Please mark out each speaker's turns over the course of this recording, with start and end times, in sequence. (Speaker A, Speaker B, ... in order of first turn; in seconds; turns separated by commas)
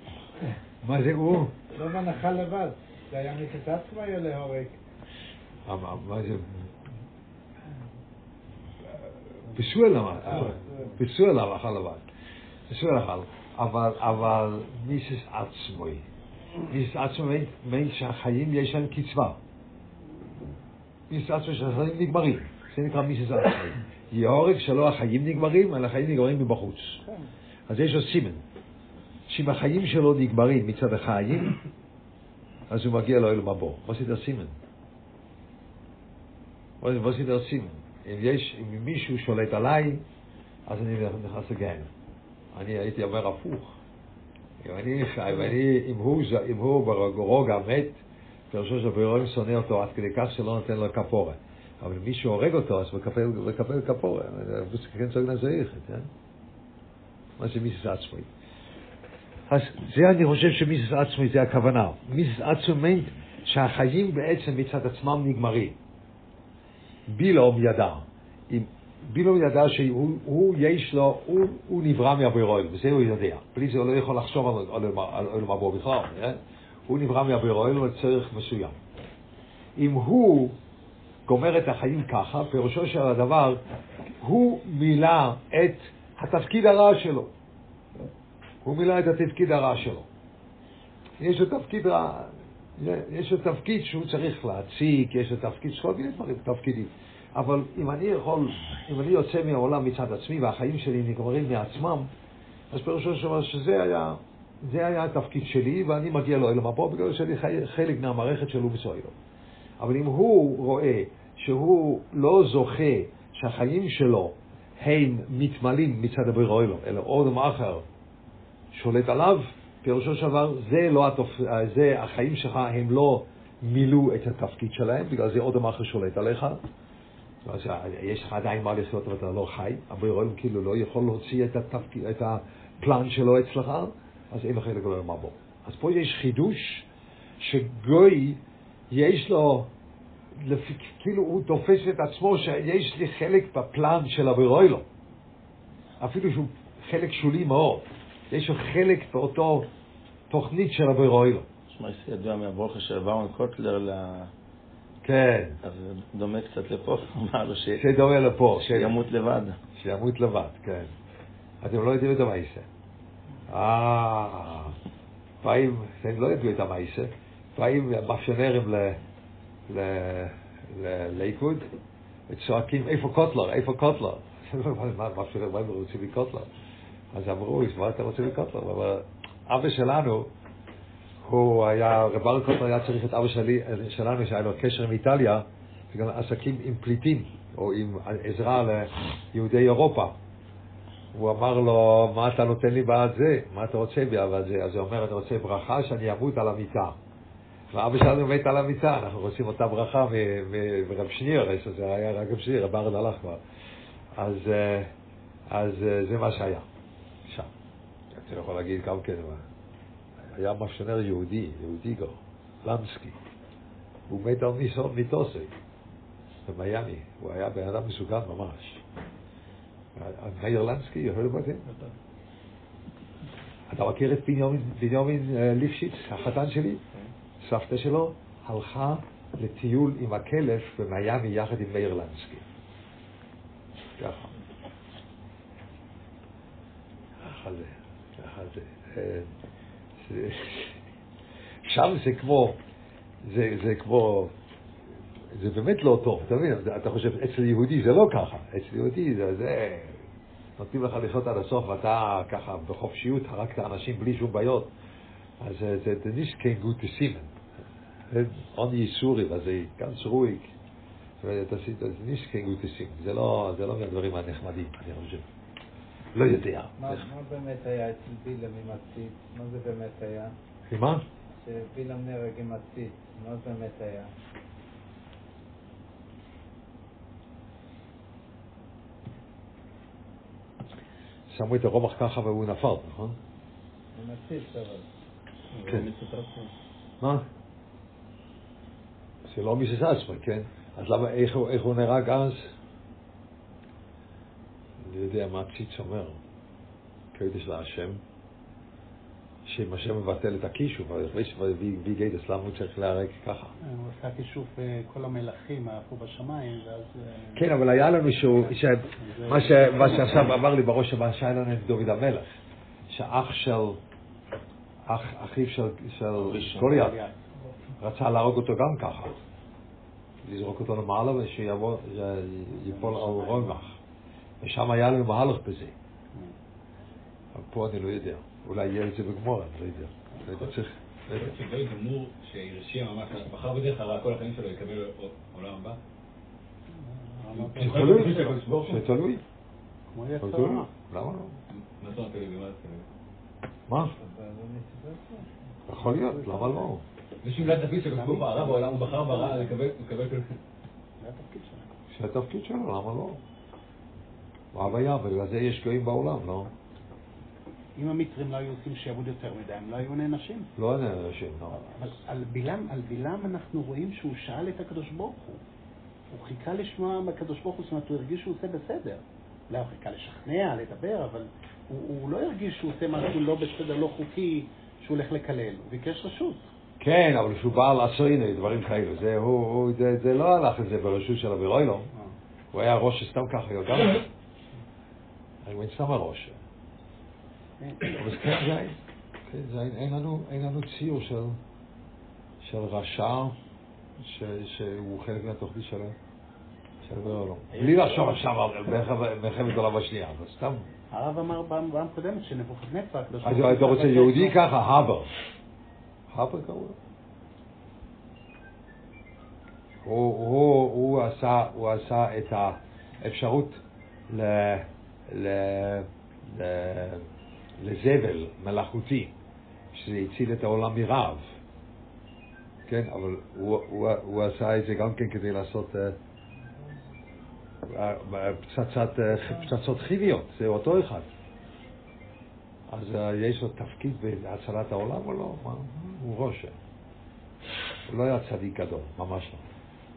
Speaker A: 0.8-1.5, Speaker B: 1.7-4.8, Speaker A: 5.7-6.6, Speaker A: 9.5-12.0, Speaker A: 12.7-16.0, Speaker A: 16.7-19.4, Speaker A: 21.1-27.0, Speaker A: 27.7-28.4, Speaker A: 29.3-31.6, Speaker A: 32.7-34.5, Speaker A: 36.8-40.0, Speaker A: 40.7-41.9, Speaker A: 42.5-43.8, Speaker A: 44.6-48.0, Speaker A: 48.5-56.1, Speaker A: 57.4-58.3, Speaker A: 59.5-65.8, Speaker A: 67.1-78.8, Speaker A: 79.8-80.5, Speaker A: 81.2-83.6, Speaker A: 84.2-87.3, Speaker A: 88.6-90.1, Speaker A: 91.2-102.1, Speaker A: 102.7-109.1, Speaker A: 109.8-117.8, Speaker A: 118.7-126.6, Speaker A: 127.4-136.8, Speaker A: 137.4-138.4, Speaker A: 138.9-139.7, Speaker A: 140.3-144.8, Speaker A: 146.0-149.7, Speaker A: 150.3-151.5, Speaker C: 151.7-154.3, Speaker A: 155.0-155.6, Speaker C: 155.6-157.8, Speaker A: 157.8-159.0, Speaker C: 158.6-159.6, Speaker A: 159.8-160.9, Speaker A: 161.6-162.7, Speaker A: 163.5-164.8, Speaker A: 165.4-169.0, Speaker A: 169.7-171.7, Speaker A: 172.3-176.5, Speaker A: 177.1-180.3, Speaker A: 181.2-190.2, Speaker A: 191.1-197.0, Speaker A: 197.7-203.4, Speaker A: 204.1-204.9, Speaker A: 205.5-206.7, Speaker A: 208.1-209.4, Speaker A: 210.2-213.2, Speaker A: 214.1-215.5, Speaker A: 216.4-218.8, Speaker A: 219.9-221.6, Speaker A: 223.7-226.8, Speaker A: 227.4-232.4, Speaker A: 234.0-234.3, Speaker A: 237.2-239.3, Speaker A: 240.0-240.7, Speaker A: 241.6-242.6, Speaker A: 243.2-244.3, Speaker A: 245.3-250.0, Speaker A: 250.6-254.7, Speaker A: 255.4-257.3, Speaker A: 258.1-260.5, Speaker A: 261.2-265.2, Speaker A: 266.1-267.1, Speaker B: 266.8-270.3, Speaker A: 270.7-271.0, Speaker B: 271.3-274.1, Speaker A: 281.3-283.1, Speaker B: 283.9-284.9, Speaker D: 285.5-286.5, Speaker A: 289.3-292.5, Speaker A: 294.8-296.2, Speaker A: 297.1-298.0, Speaker A: 299.4-303.5, Speaker E: 303.6-307.5, Speaker A: 307.4-312.3, Speaker E: 308.2-310.4, Speaker A: 312.9-313.8, Speaker A: 314.9-317.0, Speaker C: 316.3-316.8, Speaker E: 316.4-317.2, Speaker A: 317.8-319.2, Speaker A: 320.2-323.8, Speaker E: 322.6-323.6, Speaker A: 324.4-325.7, Speaker A: 327.3-331.4, Speaker D: 331.1-335.8, Speaker E: 336.7-338.4, Speaker D: 337.3-338.9, Speaker A: 337.6-339.2, Speaker E: 339.9-340.7, Speaker A: 340.2-341.4, Speaker D: 341.5-342.8, Speaker A: 343.7-343.9, Speaker B: 344.0-346.7, Speaker A: 345.7-346.8, Speaker D: 347.2-350.4, Speaker E: 347.6-349.6, Speaker E: 351.0-351.7, Speaker A: 351.9-353.2, Speaker A: 354.5-356.5, Speaker E: 357.8-360.5, Speaker A: 360.6-361.6, Speaker E: 361.5-365.4, Speaker E: 366.1-376.4, Speaker A: 376.8-381.9, Speaker A: 382.5-384.0, Speaker A: 385.4-386.4, Speaker E: 387.6-387.9, Speaker A: 387.8-388.8, Speaker A: 389.3-391.4, Speaker A: 392.4-393.4, Speaker A: 394.0-395.9, Speaker A: 396.8-400.6, Speaker E: 400.9-404.4, Speaker A: 403.2-405.1, Speaker A: 406.1-406.8, Speaker A: 409.8-417.0, Speaker A: 417.6-419.1, Speaker A: 419.7-421.2, Speaker A: 422.7-426.0, Speaker A: 427.6-431.1, Speaker A: 432.7-436.5, Speaker A: 437.9-439.4